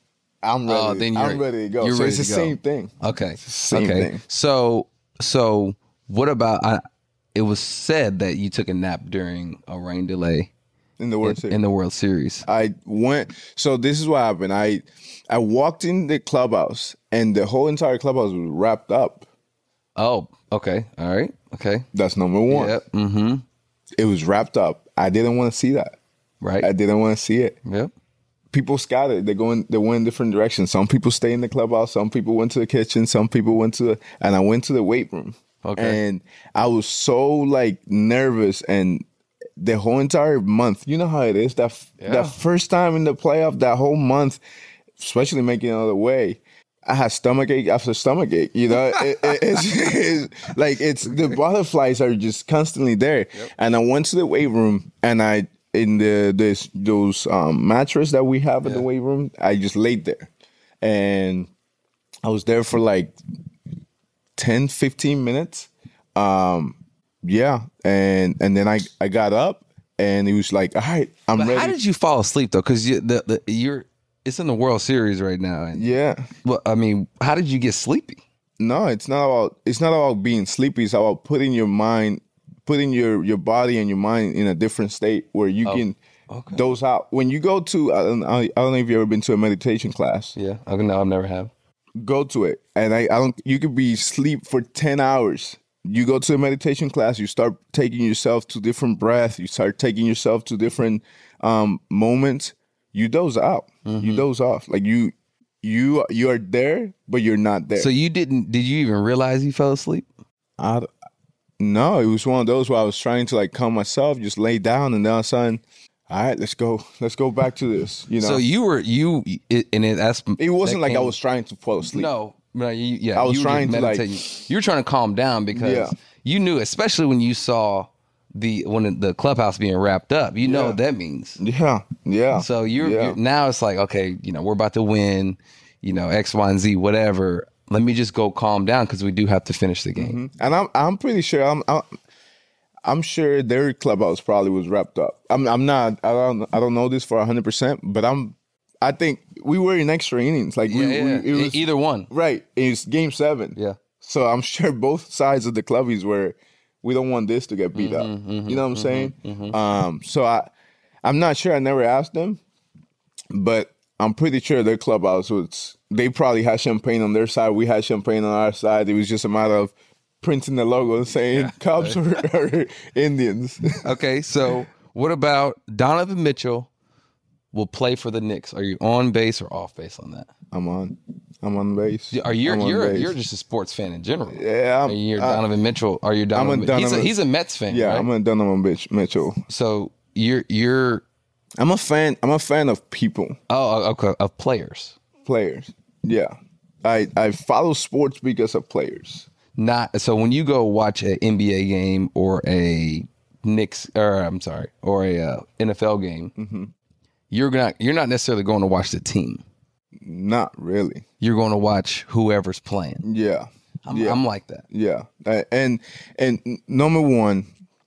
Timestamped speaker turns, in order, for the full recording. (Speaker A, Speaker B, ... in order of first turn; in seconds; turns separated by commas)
Speaker A: 0.4-4.2, Speaker B: 0.7-6.8, Speaker B: 7.3-10.5, Speaker A: 11.0-11.6, Speaker B: 11.2-12.4, Speaker A: 12.4-19.2, Speaker B: 19.9-21.9, Speaker A: 21.9-22.8, Speaker B: 22.5-23.4, Speaker A: 24.0-26.0, Speaker B: 26.4-26.7, Speaker A: 26.6-27.6, Speaker B: 27.6-27.9, Speaker A: 28.5-39.0, Speaker B: 35.6-36.0, Speaker A: 39.6-44.4, Speaker B: 42.0-42.4, Speaker A: 45.0-60.3, Speaker B: 48.7-49.6, Speaker B: 51.1-51.3, Speaker A: 60.8-61.5, Speaker A: 62.2-63.1, Speaker A: 64.4-71.8, Speaker B: 71.3-75.9, Speaker A: 75.7-76.3, Speaker B: 76.4-78.2, Speaker A: 78.6-86.0, Speaker B: 85.6-86.6, Speaker A: 86.5-90.3, Speaker B: 90.3-91.5, Speaker A: 92.0-107.9, Speaker B: 103.8-104.2, Speaker B: 107.7-110.0, Speaker A: 110.6-110.9, Speaker A: 111.6-118.4, Speaker B: 118.2-121.1, Speaker A: 120.4-122.1, Speaker B: 121.9-131.4, Speaker A: 123.1-124.1, Speaker A: 125.5-125.9, Speaker A: 130.4-130.8, Speaker A: 131.4-133.2, Speaker B: 132.3-140.2, Speaker A: 139.9-141.9, Speaker A: 142.8-160.5, Speaker B: 150.7-152.1, Speaker B: 157.7-159.6, Speaker A: 161.0-162.4, Speaker A: 163.3-173.9, Speaker B: 171.3-172.0, Speaker B: 173.8-176.7, Speaker B: 177.5-180.3, Speaker A: 180.5-183.1, Speaker B: 182.1-188.1, Speaker A: 184.3-185.4, Speaker A: 186.3-187.1, Speaker A: 187.7-189.4, Speaker B: 189.5-191.0, Speaker A: 191.6-193.4, Speaker B: 193.5-194.9, Speaker A: 195.2-199.3, Speaker B: 199.6-206.3, Speaker A: 206.4-206.7, Speaker B: 207.3-209.4, Speaker A: 210.0-211.0, Speaker B: 211.2-213.1, Speaker A: 213.0-217.5, Speaker B: 213.8-214.6